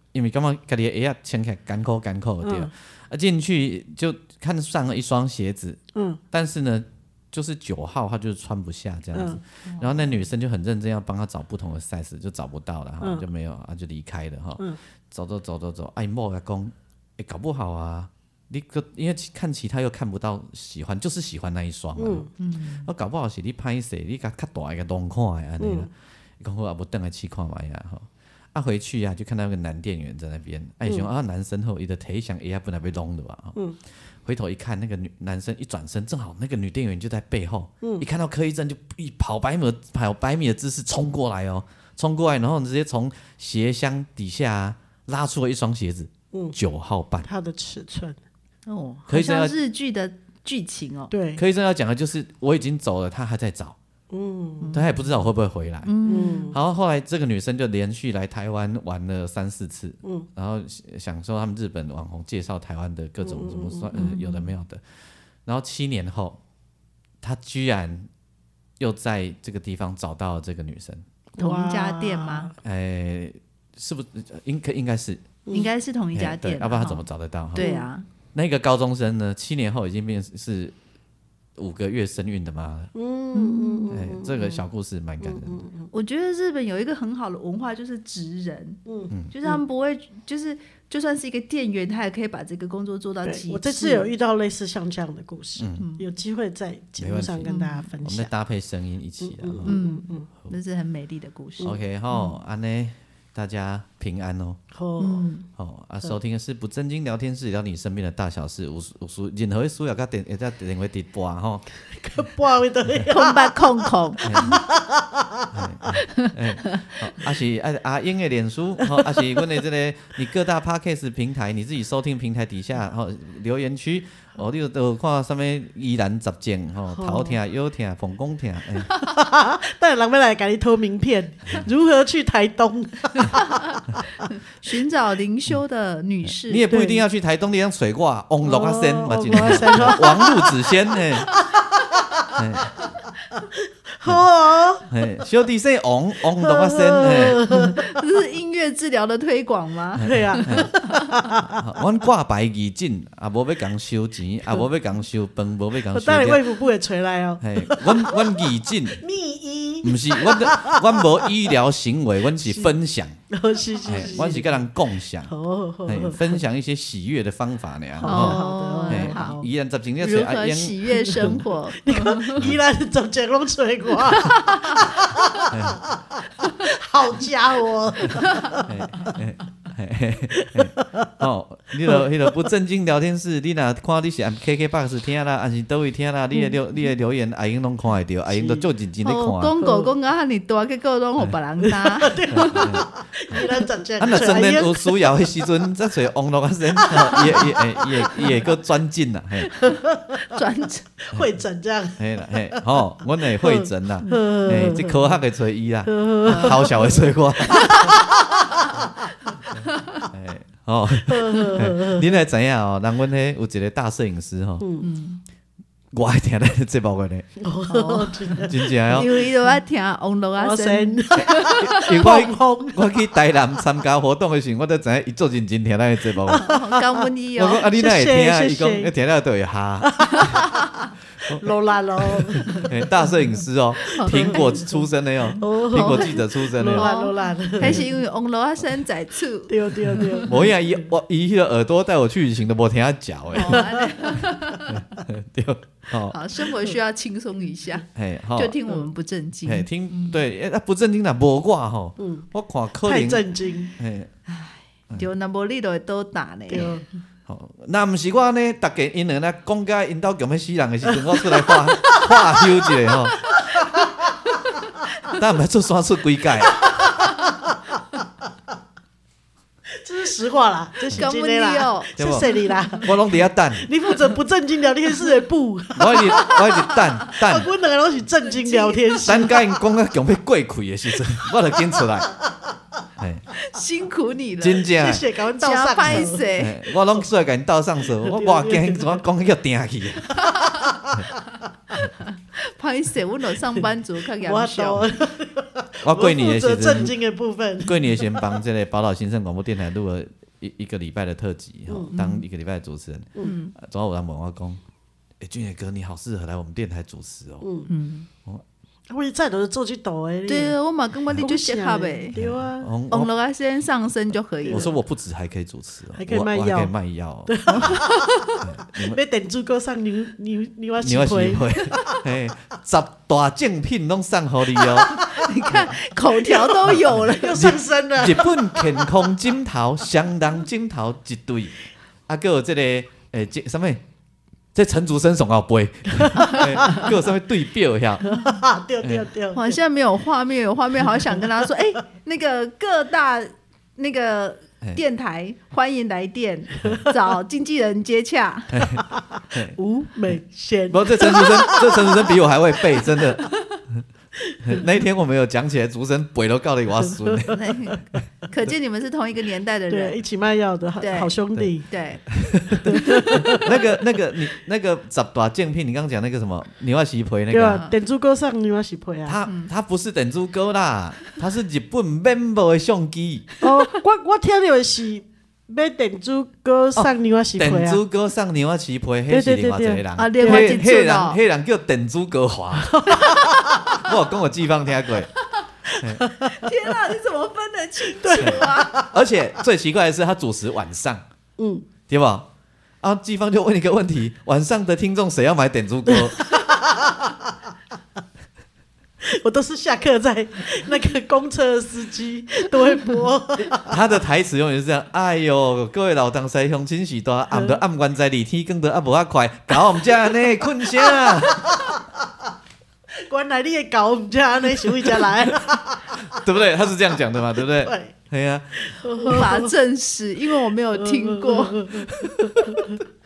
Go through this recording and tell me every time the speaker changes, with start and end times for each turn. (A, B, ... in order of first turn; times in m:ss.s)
0:00.1-0:22.3 A
0:02.4-0:02.7 B
0:06.0-0:06.2 B
0:09.1-0:09.4 B
0:09.7-0:10.2 C
0:22.0-0:22.3 B
0:22.4-0:22.9 C
0:22.8-0:33.6 A
0:25.6-0:25.9 B
0:34.2-0:47.3 A
0:47.2-0:48.2 B
0:48.7-0:51.1 C
0:49.1-0:49.6 A
0:51.1-0:51.4 B
0:51.4-0:53.8 A
0:54.1-0:54.7 B
0:54.6-0:55.2 C
0:54.7-1:04.8 A
0:55.8-0:56.6 C
0:56.0-0:56.6 B
1:03.2-1:03.9 B
1:03.9-1:04.5 C
1:05.4-1:06.4 A
1:07.2-1:08.1 A
1:08.8-1:11.0 A
1:11.4-1:12.6 B
1:11.4-1:12.5 C
1:12.6-1:15.3 A
1:15.5-1:18.1 C
1:16.1-1:17.7 A
1:17.6-1:17.9 B
1:18.3-1:20.8 A
1:21.6-1:22.9 A
1:23.0-1:24.6 B
1:23.3-1:24.0 C
1:23.9-1:25.7 A
1:25.2-1:25.9 B
1:25.9-1:34.1 C
1:28.9-1:29.6 B
1:33.2-1:38.3 B
1:35.6-1:35.9 A
1:35.8-1:36.0 C
1:37.0-1:39.8 A
1:37.5-1:37.9 C
1:39.2-1:40.3 B
1:39.7-1:42.4 C
1:41.6-1:44.6 A
1:44.7-1:45.3 B
1:45.0-1:45.5 C
1:45.6-1:51.7 A
1:51.9-1:55.6 B
1:53.1-1:54.6 C
1:54.2-1:54.6 A
1:55.5-2:09.0 A
1:56.0-1:56.8 C
1:58.8-1:59.5 B
2:06.9-2:07.4 B
2:09.0-2:13.8 B
2:13.2-2:16.7 C
2:16.4-2:21.4 A
2:16.7-2:17.0 B
2:18.4-2:22.4 B
2:22.3-2:22.8 A
2:23.5-2:25.3 B
2:24.8-2:27.5 A
2:26.4-2:28.1 B
2:27.0-2:31.3 C
2:30.0-2:30.8 A
2:30.0-2:31.6 B
2:31.4-2:36.5 A
2:35.9-2:41.6 B
2:37.4-2:39.0 A
2:39.8-2:43.2 A
2:42.4-2:42.8 B
2:43.3-2:44.6 B
2:43.8-2:44.4 C
2:43.9-2:51.5 A
2:45.2-2:46.4 B
2:48.0-2:49.5 B
2:48.0-2:49.4 C
2:50.0-2:52.5 C
2:51.8-2:59.2 B
2:54.1-2:54.8 C
2:55.5-2:55.9 A
2:58.2-2:58.6 C
2:58.6-3:09.6 A
3:00.3-3:01.1 B
3:01.8-3:02.4 B
3:08.3-3:08.7 B
3:09.0-3:12.8 C
3:09.6-3:09.9 B
3:11.6-3:15.3 B
3:12.3-3:13.5 A
3:14.0-3:19.7 A
3:16.7-3:18.6 B
3:19.6-3:20.9 C
3:19.6-3:20.4 B
3:21.1-3:25.2 B
3:22.0-3:27.9 A
3:24.1-3:24.5 C
3:25.9-3:28.8 B
3:27.5-3:28.0 C
3:29.6-3:34.7 A
3:29.7-3:30.0 C
3:31.1-3:32.2 B
3:34.6-3:34.9 B
3:34.8-3:35.2 C
3:35.9-3:37.3 A
3:37.4-3:39.2 B
3:37.7-3:41.9 C
3:38.5-3:39.2 A
3:40.4-3:43.1 B
3:41.6-3:46.6 A
3:46.2-3:47.0 B
3:46.3-3:47.7 C
3:47.4-3:50.5 A
3:47.7-3:48.9 B
3:50.0-3:50.4 B
3:50.1-3:50.9 C
3:51.2-3:56.9 A
3:51.3-3:53.1 B
3:53.9-3:54.8 C
3:54.0-3:54.8 B
3:55.4-3:57.8 B
3:55.5-4:00.3 C
3:59.5-4:00.9 B
4:00.3-4:03.8 A
4:03.3-4:05.0 C
4:03.5-4:04.3 B
4:04.7-4:06.2 A
4:06.1-4:10.2 C
4:08.0-4:08.6 A
4:09.4-4:13.3 A
4:12.0-4:12.3 B
4:12.8-4:13.7 B
4:13.8-4:14.1 A
4:14.3-4:16.8 C
4:16.5-4:16.8 B
4:17.3-4:23.3 A
4:21.1-4:24.1 B
4:23.3-4:23.6 C
4:25.1-4:26.8 A
4:26.6-4:27.8 B
4:29.7-4:33.0 B
4:30.9-4:32.9 C
4:32.0-4:32.3 A
4:32.8-4:33.7 A
4:33.6-4:36.5 B
4:35.8-4:37.5 A
4:35.9-4:36.8 C
4:37.1-4:39.6 B
4:38.2-4:39.1 C
4:39.0-4:42.1 A
4:41.0-4:42.8 B
4:43.0-4:43.3 A
4:43.4-4:44.7 C
4:44.4-4:45.1 A
4:44.7-4:46.3 B
4:45.4-4:46.6 C
4:45.8-4:50.3 A
4:48.0-4:49.0 B
4:50.2-4:50.7 C
4:50.2-4:51.1 B
4:52.0-4:54.9 C
4:54.2-4:58.4 B
4:55.8-4:56.9 A
4:57.6-5:04.6 A
5:01.7-5:01.9 B
5:01.9-5:02.2 C
5:03.2-5:03.5 C
5:05.2-5:07.5 A
5:07.4-5:07.7 B
5:07.7-5:08.1 C
5:08.9-5:10.6 B
5:10.3-5:12.2 C
5:11.2-5:12.7 B
5:12.2-5:13.1 A
5:12.9-5:14.7 C
5:14.5-5:14.7 B
5:14.5-5:17.8 A
5:16.0-5:16.7 B
5:17.3-5:22.2 B
5:17.5-5:18.4 C
5:18.4-5:19.0 A
5:20.8-5:25.0 A
5:24.6-5:25.6 B
5:25.0-5:27.5 C
5:26.2-5:29.2 B
5:26.7-5:33.8 A
5:34.6-5:38.1 A
5:36.0-5:36.9 B
5:38.0-5:38.4 C
5:38.0-5:39.6 B
5:39.3-5:48.6 C
5:48.5-5:49.6 A
5:49.6-5:53.1 B
5:50.7-5:53.8 A
5:53.2-5:53.6 C
5:54.3-5:54.7 B
5:54.4-5:57.4 A
5:56.8-5:57.5 B
5:57.3-6:00.0 C
5:59.7-6:01.7 B
6:00.8-6:01.1 C
6:01.7-6:03.5 C
6:02.1-6:07.6 A
6:02.6-6:03.8 B
6:07.3-6:09.2 B
6:07.5-6:07.7 C
6:09.1-6:13.3 A
6:13.4-6:17.8 B
6:16.8-6:25.1 A
6:19.1-6:20.6 B
6:20.0-6:21.2 C
6:22.6-6:23.9 B
6:23.0-6:23.2 C
6:25.7-6:26.1 A
6:25.7-6:26.5 B
6:26.2-6:28.8 C
6:27.9-6:29.2 B
6:28.2-6:31.0 A
6:31.4-6:31.7 B
6:31.9-6:32.3 A
6:32.8-6:36.4 A
6:35.9-6:37.4 B
6:39.0-6:43.8 B
6:43.4-6:51.7 A
6:47.3-6:47.6 B
6:49.5-6:52.3 B
6:52.9-6:58.0 B
6:54.8-6:59.2 A
6:58.6-6:59.5 B
6:59.1-7:01.8 C
7:00.8-7:02.8 B
7:01.9-7:02.7 A